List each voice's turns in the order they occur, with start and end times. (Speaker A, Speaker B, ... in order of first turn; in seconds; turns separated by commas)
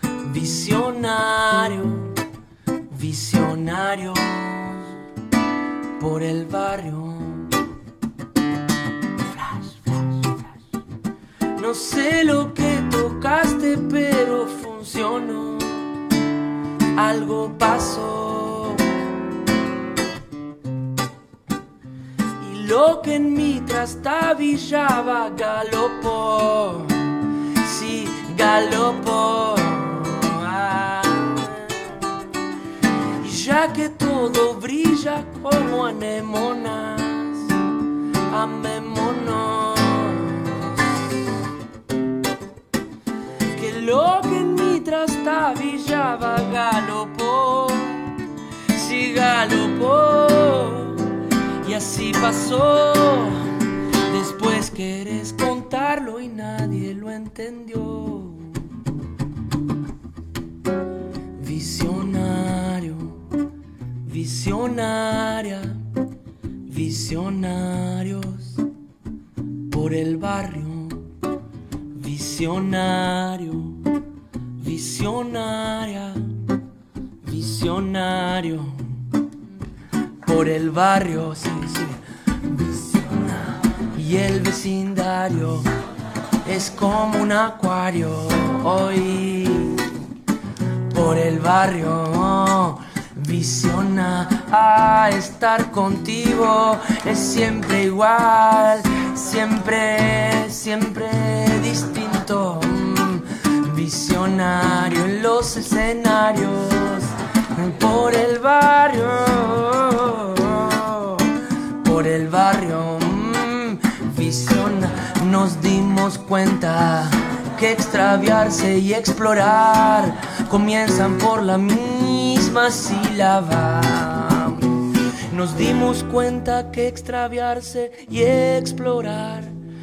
Speaker A: 0.2-2.1, Speaker A: 2.9-4.8, Speaker A: 6.0-7.5, Speaker A: 9.3-10.3, Speaker A: 11.6-15.9, Speaker A: 16.9-18.9, Speaker A: 22.4-27.0, Speaker A: 27.6-31.6, Speaker A: 33.2-37.5, Speaker A: 38.3-40.6, Speaker A: 43.5-48.0, Speaker A: 48.7-51.0, Speaker A: 51.6-53.4, Speaker A: 54.1-58.5, Speaker A: 61.4-63.2, Speaker A: 64.0-65.8, Speaker A: 66.7-68.6, Speaker A: 69.7-71.1, Speaker A: 71.9-73.8, Speaker A: 74.6-76.3, Speaker A: 77.2-78.8, Speaker A: 80.2-85.7, Speaker A: 86.4-89.8, Speaker A: 90.9-111.3, Speaker A: 111.8-124.7, Speaker A: 125.3-129.5